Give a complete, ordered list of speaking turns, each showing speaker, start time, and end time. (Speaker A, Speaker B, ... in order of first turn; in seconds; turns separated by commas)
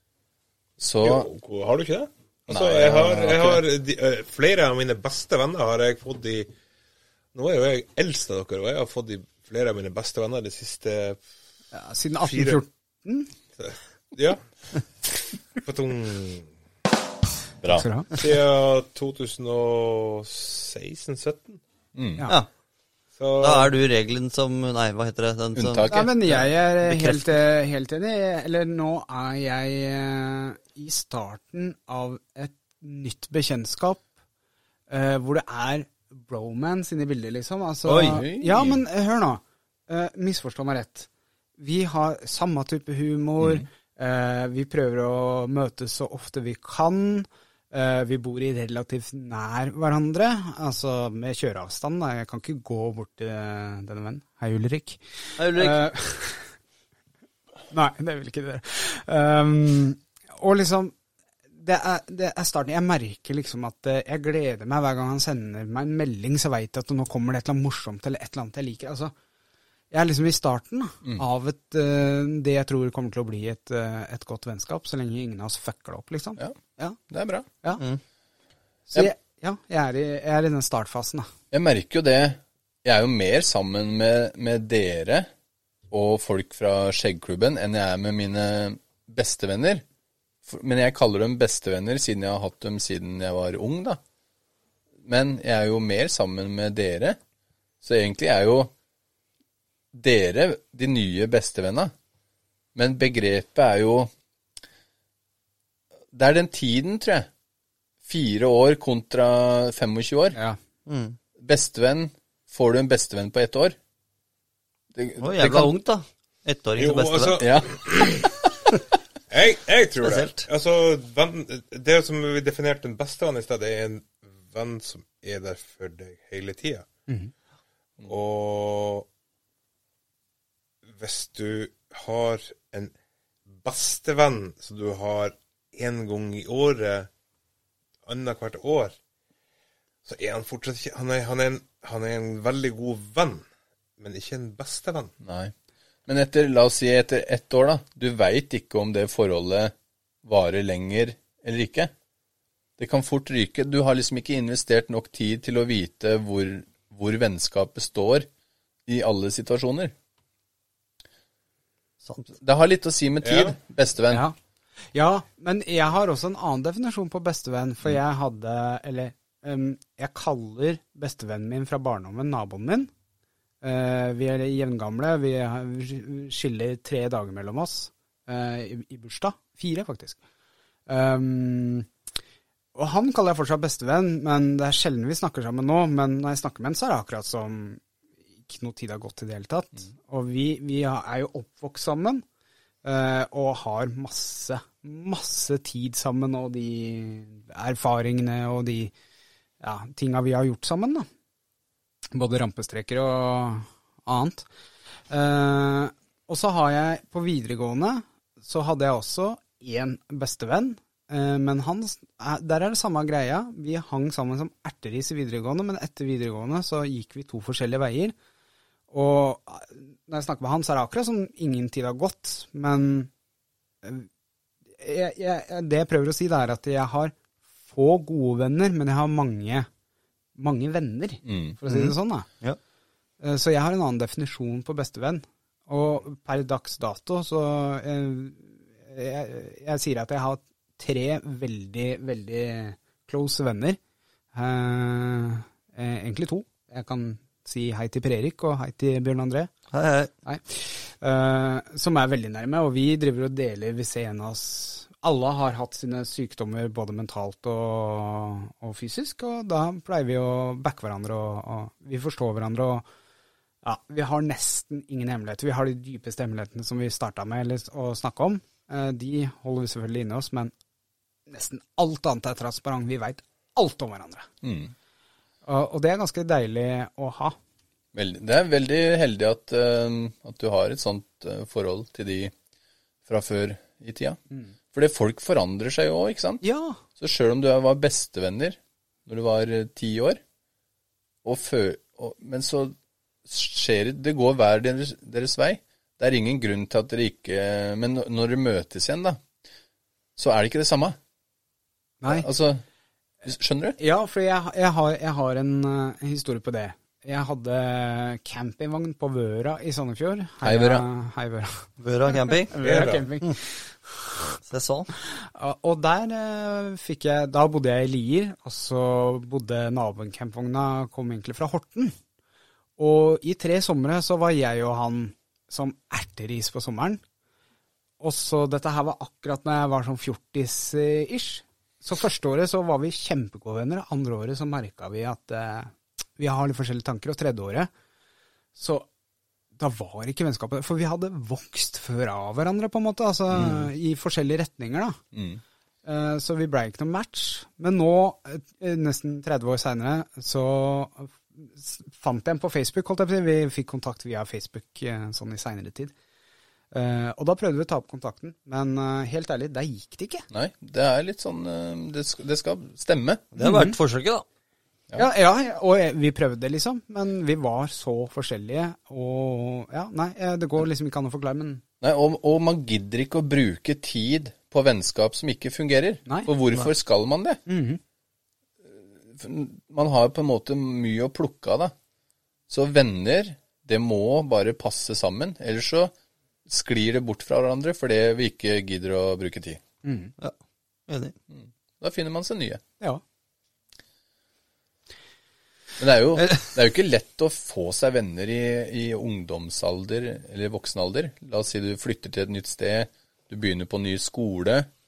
Speaker A: 0.8-1.3, Speaker B: 1.0-6.5, Speaker A: 2.5-3.6, Speaker B: 7.3-11.2, Speaker C: 11.7-13.3, Speaker B: 12.2-12.6, Speaker B: 13.6-14.4, Speaker B: 15.6-16.5, Speaker A: 17.6-17.9, Speaker C: 17.7-18.1, Speaker B: 18.1-21.6, Speaker A: 21.9-22.2, Speaker B: 23.2-23.7, Speaker D: 23.4-27.3, Speaker A: 25.5-26.1, Speaker C: 25.9-34.0, Speaker C: 34.9-56.5, Speaker A: 37.9-38.8, Speaker D: 37.9-38.2, Speaker A: 43.4-43.6, Speaker D: 55.4-55.8, Speaker C: 57.7-60.9, Speaker C: 61.6-69.1, Speaker C: 69.9-77.0, Speaker A: 77.1-77.5, Speaker C: 78.9-81.3, Speaker A: 81.5-85.3, Speaker A: 85.9-89.8, Speaker A: 90.5-94.0, Speaker A: 95.0-97.2, Speaker A: 97.8-98.7, Speaker A: 99.9-101.9, Speaker A: 102.7-104.1, Speaker A: 106.1-107.3, Speaker A: 108.0-110.4, Speaker D: 110.9-111.2, Speaker A: 111.4-113.8, Speaker A: 114.9-115.7, Speaker D: 115.2-117.4, Speaker B: 116.8-118.3, Speaker A: 117.4-118.2, Speaker B: 119.3-126.8, Speaker D: 120.0-120.4, Speaker B: 128.0-129.1, Speaker B: 130.9-132.9, Speaker B: 133.6-137.1, Speaker B: 138.1-138.9, Speaker B: 140.0-143.4, Speaker B: 144.0-145.1, Speaker A: 145.2-145.5, Speaker A: 146.1-151.9, Speaker A: 152.8-158.3, Speaker A: 158.8-159.9, Speaker A: 162.3-164.2, Speaker B: 163.2-163.5, Speaker C: 164.1-164.3, Speaker C: 164.9-172.9, Speaker C: 173.6-180.2, Speaker C: 180.9-181.9, Speaker C: 182.7-187.8, Speaker C: 188.4-192.2, Speaker C: 192.8-198.9, Speaker C: 199.6-201.1, Speaker C: 202.1-204.4, Speaker C: 205.1-218.1, Speaker C: 218.9-223.1, Speaker C: 223.8-224.1, Speaker C: 224.8-227.1, Speaker C: 227.7-229.7, Speaker C: 230.3-232.3, Speaker A: 231.2-231.6, Speaker D: 231.7-232.6, Speaker C: 233.2-243.8, Speaker C: 244.3-249.5, Speaker D: 249.7-250.1, Speaker C: 250.2-262.9, Speaker C: 263.6-270.5, Speaker C: 271.3-274.3, Speaker A: 274.4-274.7, Speaker C: 275.4-277.4, Speaker A: 277.9-282.3, Speaker A: 283.1-284.2, Speaker A: 284.7-286.4, Speaker C: 286.4-286.8, Speaker A: 287.0-290.2, Speaker A: 291.2-299.2, Speaker A: 300.2-301.0, Speaker C: 302.0-302.3, Speaker A: 302.1-302.6, Speaker A: 303.2-303.8, Speaker C: 303.8-311.7, Speaker A: 310.4-310.9, Speaker D: 311.8-312.5, Speaker C: 312.3-314.1, Speaker B: 312.6-313.1, Speaker D: 314.4-314.9, Speaker C: 315.2-321.9, Speaker C: 322.8-327.0, Speaker C: 328.0-337.7, Speaker C: 338.5-338.9, Speaker C: 339.6-345.0, Speaker A: 343.3-343.7, Speaker A: 345.1-345.4, Speaker C: 345.8-355.9, Speaker C: 356.7-360.2, Speaker A: 360.3-363.2, Speaker D: 363.3-364.2, Speaker C: 363.4-363.8, Speaker C: 364.9-371.6, Speaker A: 371.8-377.4, Speaker C: 377.4-377.8, Speaker A: 378.7-381.7, Speaker A: 382.5-385.9, Speaker A: 386.4-389.6, Speaker C: 389.8-390.1, Speaker D: 390.9-391.1, Speaker A: 391.3-392.6, Speaker A: 395.8-404.7